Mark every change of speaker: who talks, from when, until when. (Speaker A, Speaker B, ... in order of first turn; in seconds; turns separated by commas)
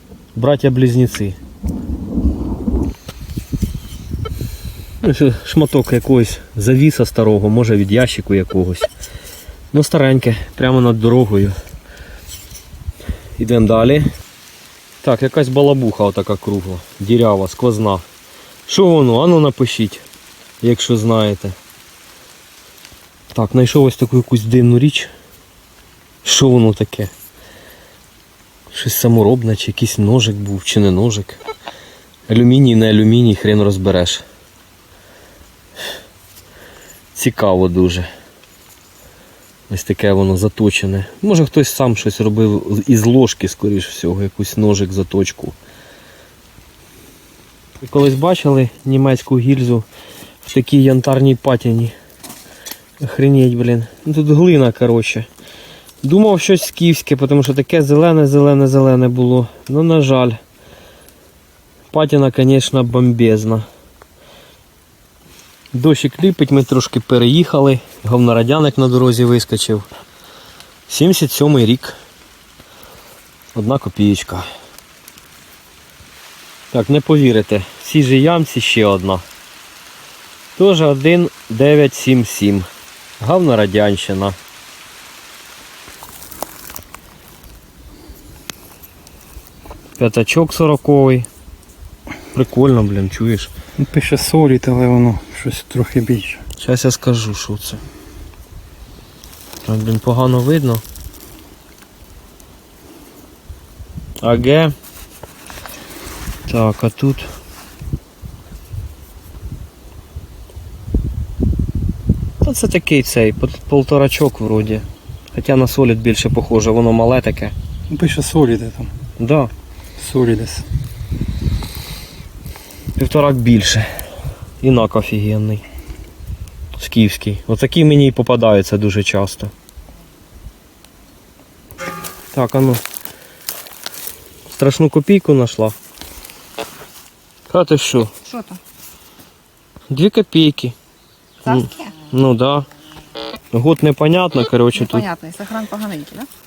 Speaker A: 0.3-1.4, Speaker A: 5.0-8.9, Speaker A: 9.7-11.6, Speaker A: 13.4-14.1, Speaker A: 15.0-18.0, Speaker A: 18.7-20.0, Speaker A: 20.6-21.6, Speaker A: 23.3-25.1, Speaker A: 26.2-27.1, Speaker A: 28.7-31.4, Speaker A: 32.3-34.2, Speaker A: 37.1-38.1, Speaker A: 39.7-45.6, Speaker A: 47.8-49.9, Speaker A: 50.4-51.9, Speaker A: 53.0-55.3, Speaker A: 56.0-60.4, Speaker A: 61.9-63.7, Speaker A: 65.7-69.9, Speaker A: 70.9-71.9, Speaker A: 73.5-74.5, Speaker A: 76.7-79.2, Speaker A: 80.6-82.7, Speaker A: 83.2-84.4, Speaker A: 90.0-91.3, Speaker A: 92.3-93.5, Speaker B: 93.8-96.4, Speaker A: 96.6-97.8, Speaker A: 99.6-100.8, Speaker A: 104.2-104.7, Speaker A: 106.5-107.3, Speaker A: 112.4-117.5, Speaker B: 117.9-118.9, Speaker A: 119.2-119.5, Speaker B: 120.0-120.7, Speaker A: 123.0-123.8, Speaker A: 124.6-125.7, Speaker A: 126.8-129.5, Speaker A: 132.3-132.8, Speaker A: 134.5-135.8, Speaker A: 137.5-138.1, Speaker C: 138.2-138.6, Speaker A: 139.9-140.8, Speaker C: 141.5-141.9, Speaker A: 141.5-142.7, Speaker A: 143.5-145.1, Speaker C: 144.8-146.3